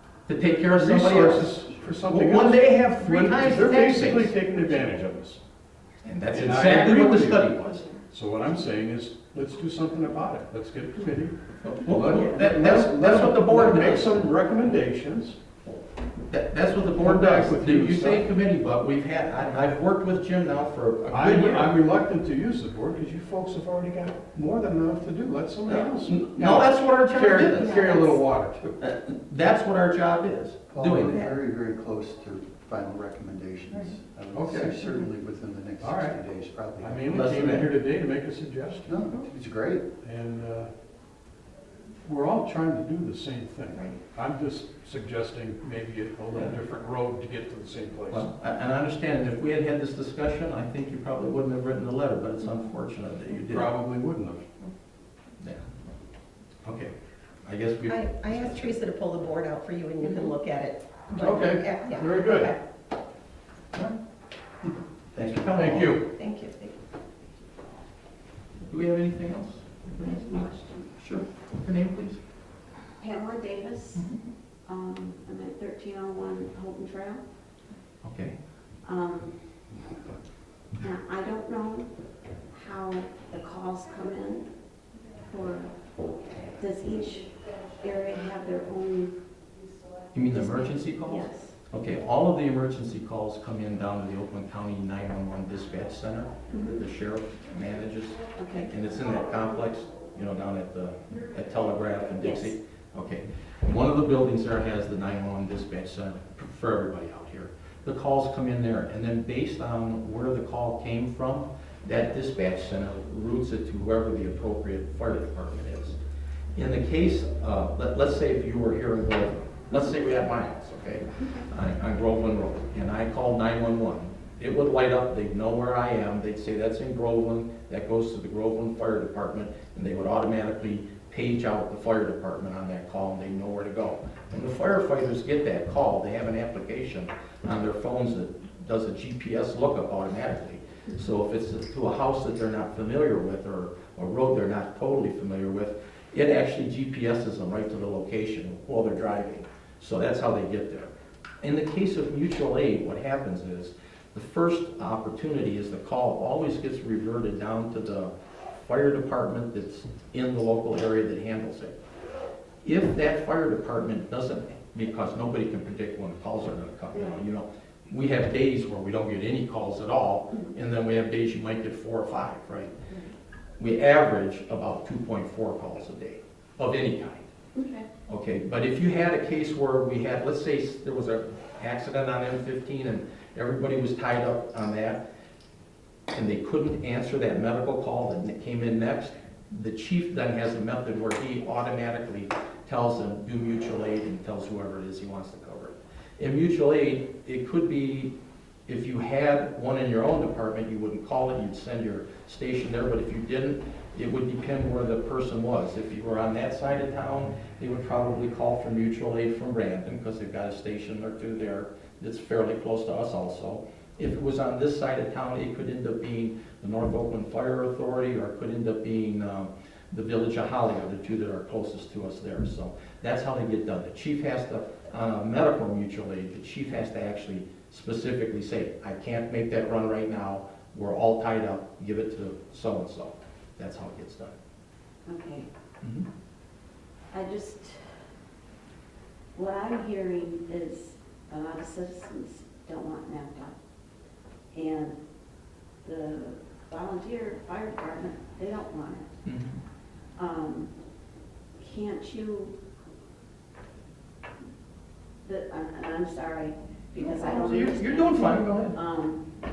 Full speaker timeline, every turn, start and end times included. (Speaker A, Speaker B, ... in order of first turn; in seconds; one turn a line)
Speaker A: 0.3-4.3
Speaker B: 0.4-5.4
Speaker A: 6.0-7.8
Speaker B: 6.3-7.5
Speaker B: 8.1-15.4
Speaker A: 11.6-14.1
Speaker A: 16.3-21.7
Speaker B: 17.0-18.2
Speaker B: 21.1-28.7
Speaker A: 25.7-28.0
Speaker A: 28.6-31.2
Speaker C: 30.7-37.1
Speaker B: 34.3-34.8
Speaker B: 35.8-36.2
Speaker B: 36.8-39.1
Speaker A: 37.1-37.7
Speaker C: 38.8-39.9
Speaker B: 40.0-40.7
Speaker B: 42.0-48.3
Speaker A: 48.1-53.7
Speaker B: 53.5-54.5
Speaker A: 56.6-56.9
Speaker A: 57.4-58.8
Speaker D: 57.9-62.6
Speaker B: 61.2-62.5
Speaker A: 65.1-66.0
Speaker B: 65.2-66.0
Speaker D: 66.1-66.7
Speaker A: 68.7-70.5
Speaker E: 70.0-70.9
Speaker A: 71.0-72.2
Speaker E: 73.0-74.0
Speaker A: 73.9-74.3
Speaker E: 74.7-77.2
Speaker A: 78.0-78.3
Speaker E: 78.8-79.4
Speaker E: 80.8-81.9
Speaker E: 82.5-84.5
Speaker E: 85.3-85.7
Speaker E: 86.6-89.2
Speaker A: 90.1-116.0
Speaker E: 90.3-91.5
Speaker E: 96.5-96.8
Speaker E: 98.4-98.7
Speaker E: 102.2-102.5
Speaker A: 116.5-150.9
Speaker A: 151.4-161.7
Speaker A: 162.6-172.7
Speaker E: 172.9-173.1
Speaker A: 173.6-177.3
Speaker E: 177.5-177.9
Speaker A: 178.1-185.0
Speaker A: 186.1-198.1
Speaker A: 198.7-234.3
Speaker E: 235.1-235.5
Speaker A: 235.8-236.1
Speaker E: 237.1-237.8
Speaker E: 239.3-243.5
Speaker E: 244.5-245.0
Speaker E: 245.8-249.1
Speaker A: 249.2-249.6
Speaker E: 250.2-250.7
Speaker E: 251.6-252.5
Speaker E: 255.2-259.3
Speaker A: 257.0-258.8